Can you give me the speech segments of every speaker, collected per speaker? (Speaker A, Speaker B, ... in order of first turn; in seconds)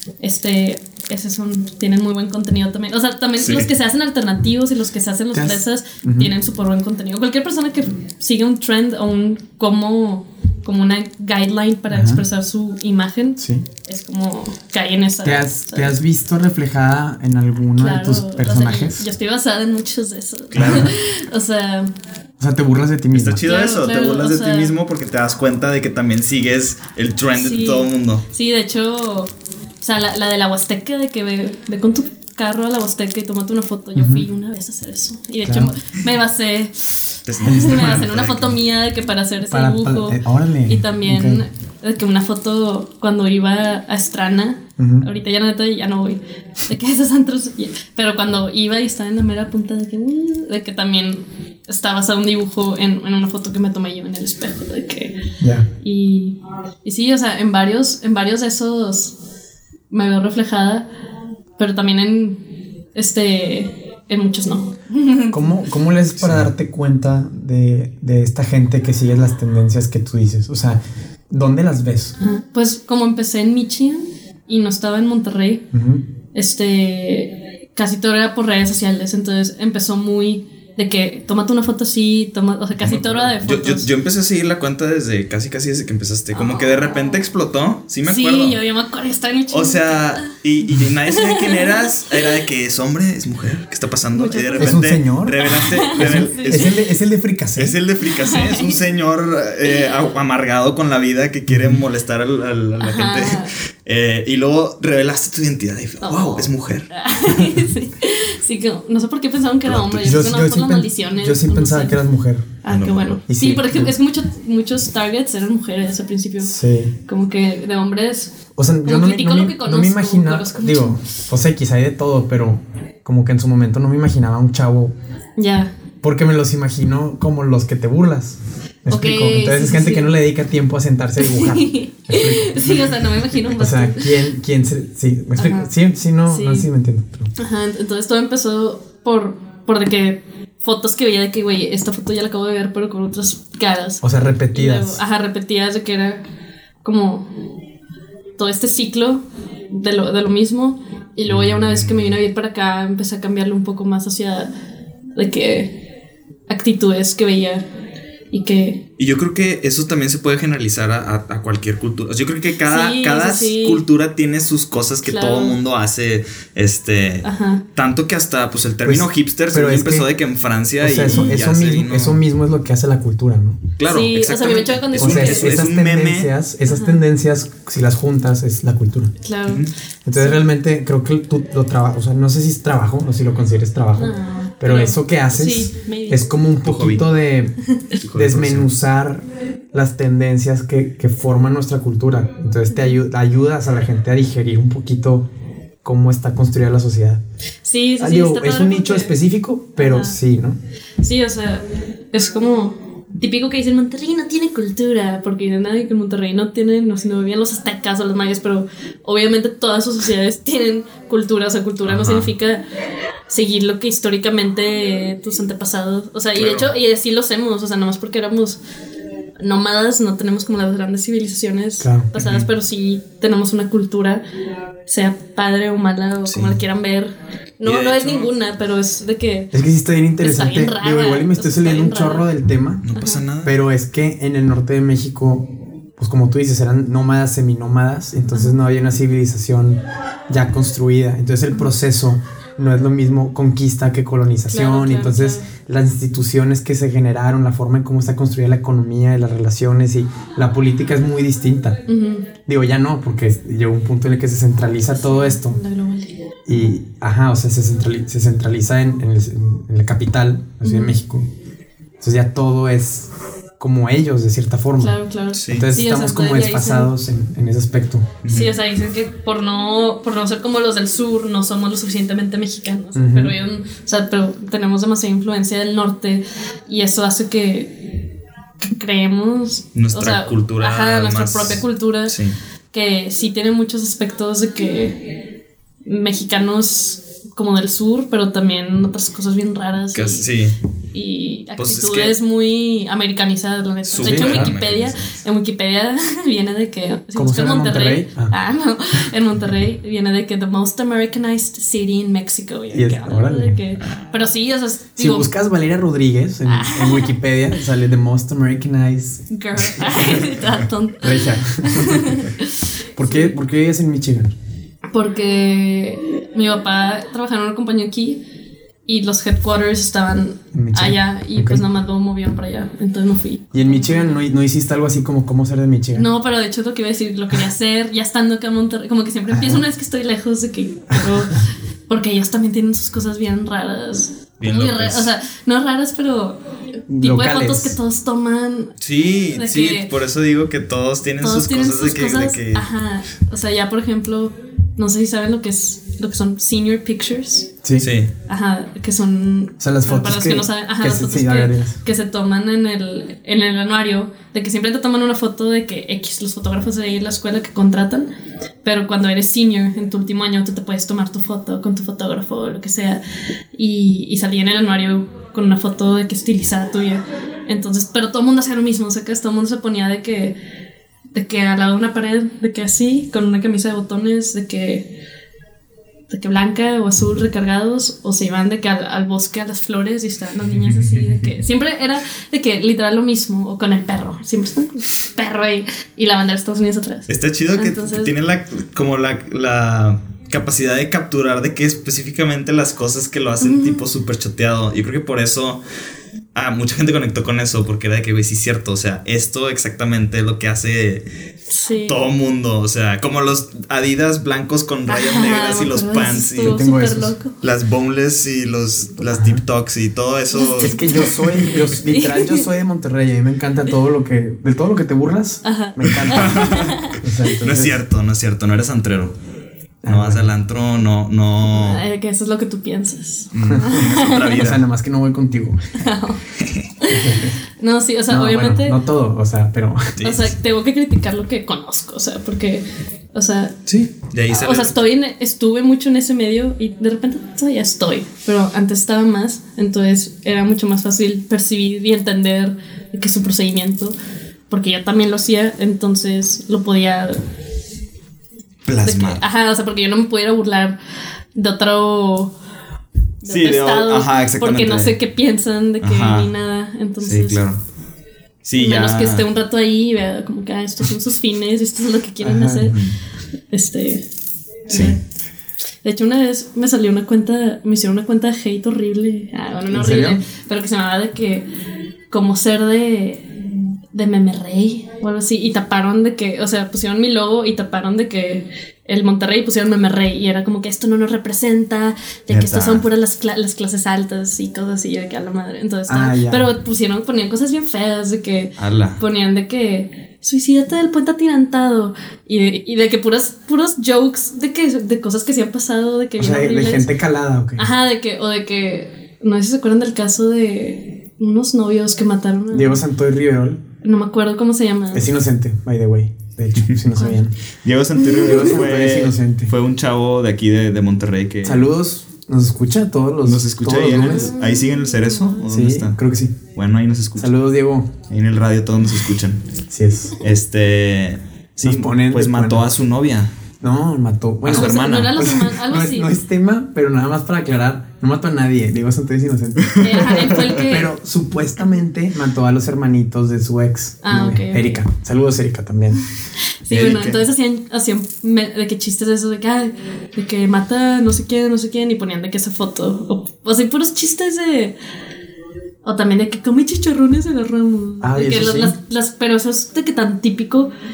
Speaker A: 0.2-15.9, 17.8-21.9, 23.4-24.8, 27.4-55.2, 55.8-59.2, 59.9-60.9, 61.6-62.4, 63.0-65.4, 72.2-75.7, 76.3-83.9, 86.3-87.2, 88.0-90.3, 91.1-92.3, 94.2-94.8, 95.4-96.7, 98.1-98.8, 99.7-99.9, 102.8-103.5, 106.0-112.0, 112.6-121.0, 125.4-125.8, 128.9-130.1, 131.2-134.3, 135.4-135.7, 136.3-136.7, 137.4-146.2, 146.8-147.3, 148.4-154.5, 155.2-155.8, 156.5-157.7, 158.3-158.8, 162.7-163.8, 165.0-165.6, 167.2-167.6, 171.1-171.4, 173.9-175.7, 176.7-177.0, 179.2-179.7, 183.9-186.4, 192.7-193.0, 197.6-199.2, 199.8-200.2, 201.0-212.6, 213.3-218.6, 219.4-224.2, 224.9-229.5, 230.2-232.3, 232.9-233.2, 238.3-238.6, 244.5-245.5, 251.9-252.3, 254.9-256.2, 260.6-261.0, 264.8-266.9, 268.3-278.1, 278.6-282.2, 282.7-285.2, 285.9-290.3, 290.9-305.3, 306.5-307.2, 309.3-313.4, 314.9-318.2, 318.9-324.2, 325.9-336.4, 337.0-338.8, 339.4-339.9, 341.2-347.5, 348.3-358.1, 358.6-363.0, 363.5-370.4, 371.1-375.0, 376.1-388.1, 393.4-393.9, 401.5-402.1, 404.9-407.4, 410.3-412.5, 415.4-417.0, 421.5-424.4, 425.8-426.2, 426.8-428.8, 430.0-433.6, 434.3-444.0, 444.5-447.2, 448.8-450.8, 451.4-452.3, 453.2-457.4, 458.6-462.8, 463.5-464.1, 464.7-465.0, 465.8-471.5, 472.1-496.9, 497.6-502.8, 503.8-505.1, 506.9-507.2, 508.0-508.6, 513.8-515.4, 524.5-526.1, 529.8-530.9, 534.0-534.8, 536.6-544.8, 545.8-550.7
Speaker B: 3.4-3.7, 20.5-21.0, 23.1-28.2, 37.3-38.6, 66.2-66.5, 82.8-88.6, 89.5-96.8, 97.6-106.9, 109.7-110.3, 112.7-113.2, 151.3-152.2, 159.0-172.2, 173.8-176.3, 179.5-179.7, 186.6-187.1, 188.0-188.7, 211.8-212.3, 216.4-216.7, 222.2-222.5, 226.3-226.6, 227.6-228.3, 232.8-233.6, 265.3-265.7, 268.2-268.6, 279.8-282.4, 289.9-290.6, 291.6-292.2, 293.9-295.2, 334.4-335.1, 338.8-342.7, 347.8-348.1, 380.4-381.3, 387.1-395.6, 396.4-401.1, 401.9-406.7, 407.4-411.6, 415.9-419.1, 419.9-421.8, 423.3-424.6, 426.4-426.7, 430.0-430.4, 433.7-434.8, 448.7-449.2, 453.2-455.0, 455.8-456.3, 457.0-457.6, 458.4-459.3, 462.7-463.0, 464.7-465.0, 482.3-482.9, 488.6-489.0, 507.6-511.7, 513.2-516.0, 516.5-517.3, 518.1-519.4, 520.2-523.3, 524.4-525.3, 529.6-530.6, 536.7-537.2
Speaker C: 5.3-6.3, 11.9-12.2, 13.4-13.7, 15.2-19.1, 20.6-20.9, 22.4-23.5, 34.0-34.3, 35.4-35.8, 37.5-37.8, 39.5-41.4, 44.8-45.1, 55.4-55.7, 65.3-72.2, 75.7-76.0, 94.6-97.8, 101.5-101.8, 110.0-112.5, 113.3-113.9, 116.4-116.9, 118.6-124.9, 126.0-133.0, 133.6-137.3, 144.0-145.0, 168.8-170.1, 170.8-173.7, 175.0-179.1, 180.1-187.5, 188.1-195.3, 195.8-197.2, 198.0-200.6, 221.8-222.1, 229.5-232.8, 233.4-251.8, 252.5-255.6, 256.5-261.3, 262.0-268.2, 272.9-273.4, 294.0-294.5, 297.1-298.4, 302.7-303.6, 305.0-309.3, 311.0-312.3, 313.0-314.3, 320.5-321.6, 323.5-326.1, 329.3-329.6, 330.9-331.2, 336.9-337.8, 347.6-347.9, 349.6-351.8, 406.4-407.1, 409.1-409.4, 410.6-417.8, 419.8-420.3, 424.4-425.7, 426.9-427.4, 428.1-430.0, 462.2-462.8, 469.7-470.2, 485.9-486.5, 496.2-497.7, 502.5-503.6, 504.9-507.3, 508.1-509.5, 511.4-514.3, 515.4-516.4, 517.2-517.9, 519.7-520.2, 521.6-522.8, 523.6-530.0, 530.6-536.0, 548.0-548.8